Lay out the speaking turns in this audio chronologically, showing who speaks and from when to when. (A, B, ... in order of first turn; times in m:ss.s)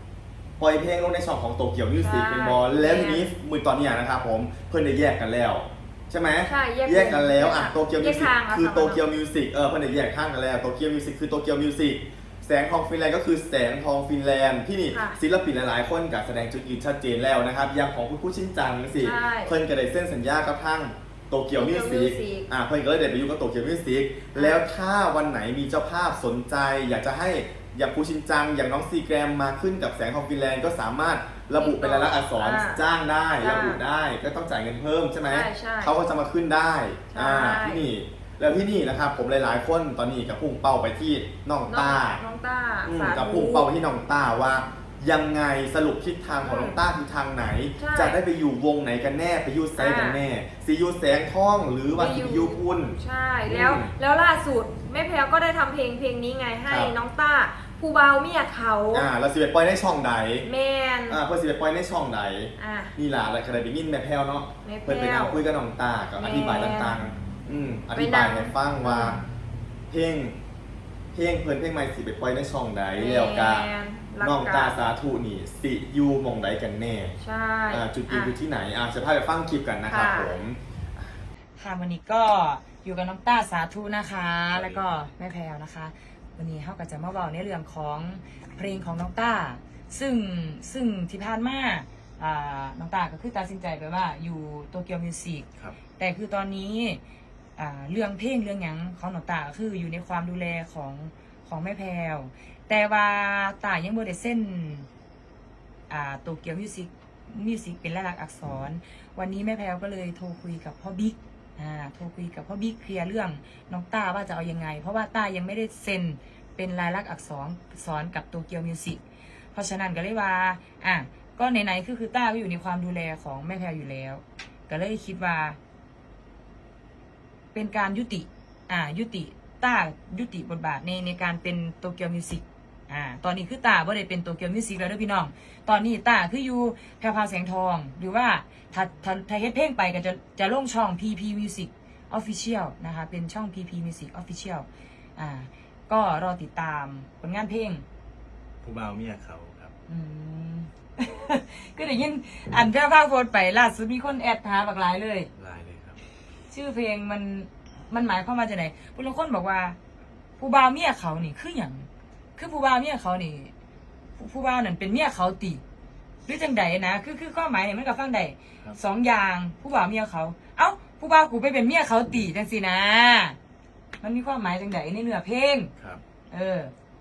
0:00.6-0:42.2 A
0:02.0-0:03.3 B
0:06.4-0:09.0 B
0:14.9-0:15.2 B
0:19.0-0:19.5 B
0:21.6-0:22.5 B
0:24.3-0:24.6 B
0:31.6-0:32.8 B
0:33.4-0:33.8 B
0:35.2-0:36.0 B
0:37.1-0:37.8 B
0:41.7-0:43.7 B
0:42.8-0:53.0 A
0:46.4-0:46.8 B
0:47.8-0:48.2 B
0:49.8-0:50.2 B
0:51.9-0:59.1 B
0:53.5-0:53.9 A
0:56.7-0:56.9 A
0:58.9-1:00.4 A
1:00.4-1:01.2 B
1:01.1-1:09.2 A
1:02.6-1:03.0 B
1:04.6-1:05.4 B
1:06.1-1:07.0 B
1:07.9-1:09.2 B
1:09.9-1:10.4 A
1:11.1-1:13.7 A
1:12.9-1:14.8 B
1:14.2-1:17.2 A
1:17.2-1:18.4 B
1:17.7-1:21.0 A
1:19.8-1:20.4 B
1:21.6-1:35.4 C
1:24.5-1:24.8 D
1:36.0-1:37.0 C
1:37.6-1:44.9 C
1:45.9-1:59.0 C
1:59.5-2:05.6 C
2:07.5-2:27.8 C
2:28.6-2:29.7 D
2:29.9-2:35.3 C
2:35.4-2:36.0 D
2:36.5-2:39.8 C
2:40.4-2:43.5 C
2:44.2-2:45.6 C
2:46.2-2:53.4 C
2:54.0-2:55.7 C
2:56.3-2:56.7 C